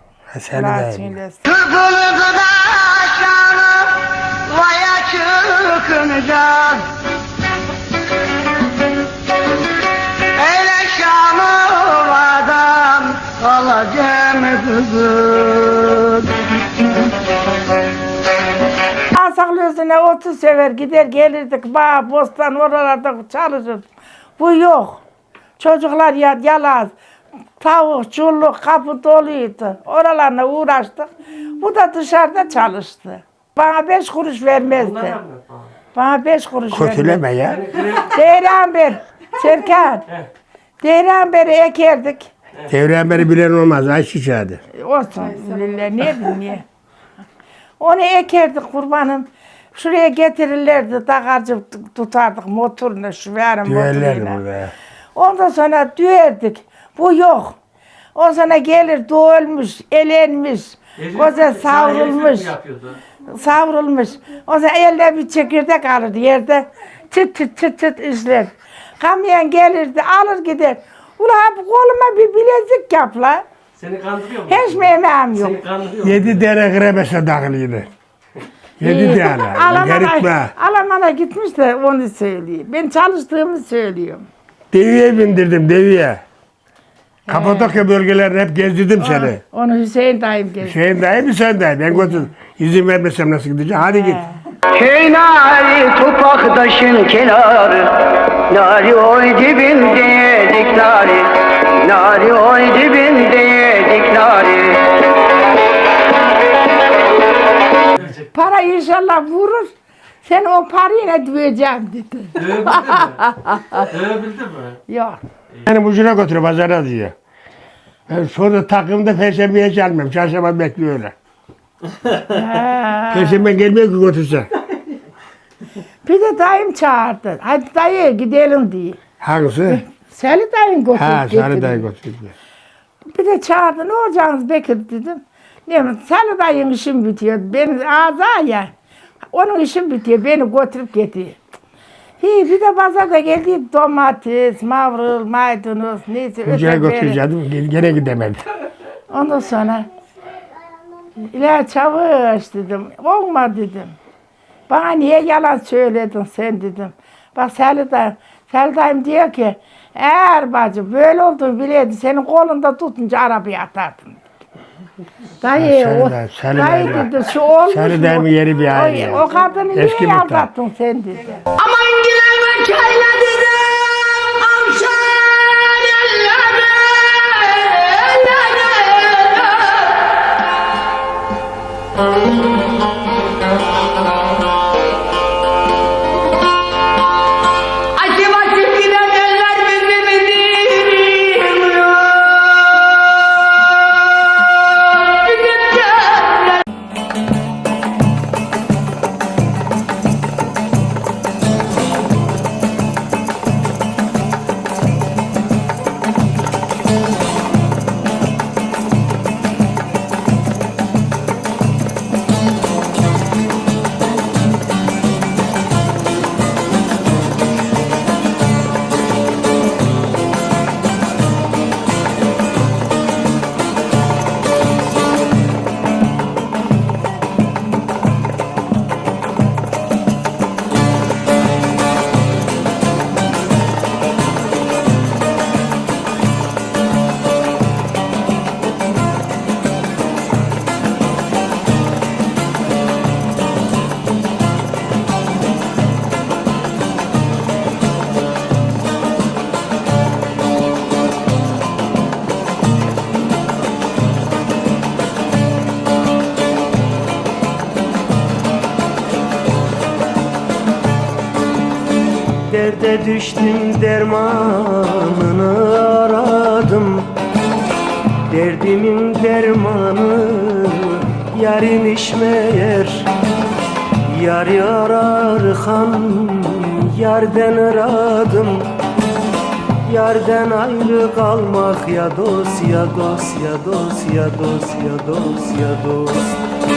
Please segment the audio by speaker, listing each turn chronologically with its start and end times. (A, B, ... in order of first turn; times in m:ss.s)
0:00.3-0:01.2 A
0:00.5-0:01.4 B
0:01.5-0:06.9 C
0:10.4-0:16.3 C
0:19.1-0:23.9 B
0:24.4-0:25.0 B
0:25.6-0:26.9 B
0:27.6-0:35.2 B
0:34.8-0:35.7 D
0:35.9-0:37.2 B
0:36.7-0:37.7 A
0:37.5-0:38.2 D
0:37.9-0:40.1 B
0:40.8-0:42.3 B
0:42.7-0:44.6 A
0:44.7-0:46.7 B
0:47.8-0:54.4 B
0:53.6-0:54.7 A
0:55.1-0:57.6 B
0:58.2-1:02.6 B
1:01.0-1:03.0 D
1:03.3-1:13.4 B
1:13.8-1:16.4 D
1:14.5-1:15.6 B
1:16.0-1:17.9 A
1:18.8-1:20.5 A
1:18.8-1:24.3 B
1:24.7-1:26.2 A
1:27.3-1:27.8 B
1:27.3-1:29.4 A
1:29.0-1:30.8 B
1:30.6-1:34.2 A
1:34.0-1:34.4 B
1:34.7-1:45.1 C
1:48.0-1:48.3 D
1:48.3-1:53.9 B
1:52.4-1:54.8 D
1:54.9-1:55.2 B
1:55.7-1:57.2 A
1:58.1-2:01.1 A
2:02.2-2:03.5 B
2:03.1-2:04.5 A
2:06.0-2:09.0 B
2:09.2-2:09.8 A
2:09.7-2:11.8 B
2:11.0-2:12.3 A
2:13.1-2:18.7 B
2:19.3-2:21.4 B
2:22.2-2:27.2 B
2:26.5-2:28.4 A
2:29.1-2:29.9 B
2:31.2-2:34.0 B
2:34.7-2:44.2 B
2:45.4-2:51.5 B
2:45.6-2:47.1 A
2:47.7-2:50.5 A
2:51.5-3:00.1 C
3:08.0-3:13.1 C
3:14.7-3:16.6 C
4:22.5-4:27.1 E
4:28.3-4:33.1 E
4:34.1-4:38.7 E
4:39.9-4:46.4 E